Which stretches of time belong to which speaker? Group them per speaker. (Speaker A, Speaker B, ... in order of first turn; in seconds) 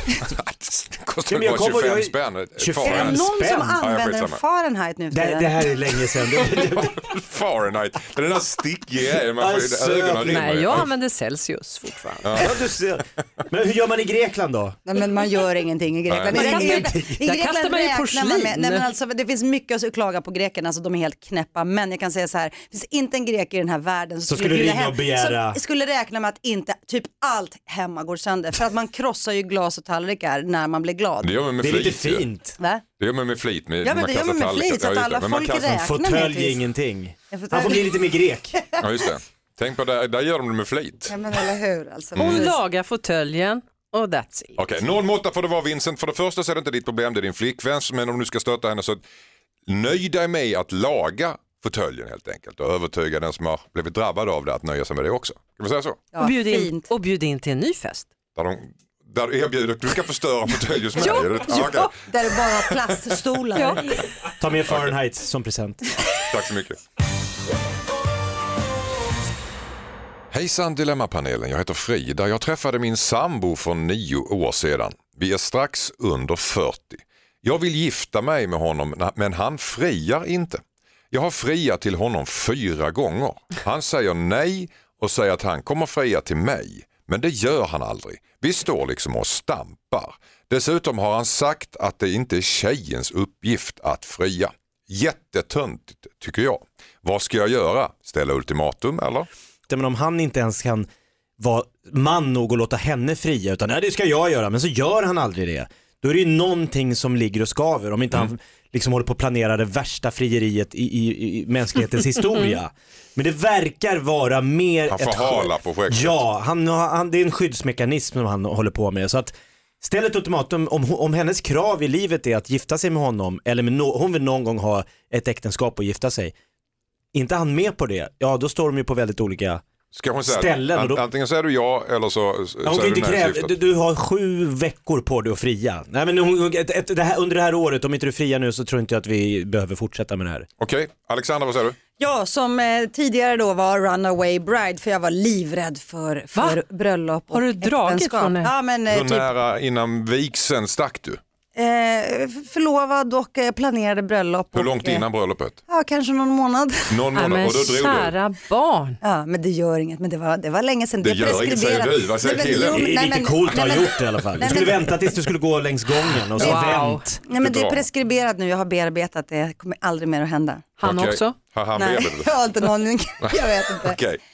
Speaker A: 0.2-3.3, 3.8-4.4, 6.8-10.9, 12.2-12.5, 16.1-16.6, 31.2-32.3, 33.0-35.8, 38.8-41.1, 42.1-42.4, 44.6-49.0, 49.7-56.0, 58.3-61.9, 64.7-65.0, 66.2-66.8, 70.3-99.3, 114.9-116.2, 129.9-133.5, 140.6-141.8, 148.9-151.2, 154.5-155.6, 156.9-158.1, 161.0-162.8, 167.3-167.8, 170.8-172.3, 173.2-174.2
Speaker B: 1.3-3.8, 5.1-7.1, 9.3-10.8, 12.3-14.8, 16.4-17.2, 24.2-25.6, 31.6-32.6, 35.7-38.6, 64.4-65.8, 99.7-126.3, 127.1-129.6, 130.2-131.0, 132.6-140.5, 162.5-167.2
Speaker C: 2.8-5.7, 14.8-31.3, 32.6-32.8, 33.8-36.7, 37.3-38.8, 41.1-42.6, 56.1-56.9, 61.5-63.9, 142.0-149.3, 151.6-155.0, 155.7-157.1, 159.0-165.2, 166.4-170.7, 171.8-174.0
Speaker D: 10.2-12.4, 16.3-18.9, 42.2-44.6, 56.2-58.1, 61.0-61.9, 63.5-63.8, 146.3-146.6, 147.3-148.5, 157.2-159.0, 166.4-167.1, 170.8-171.4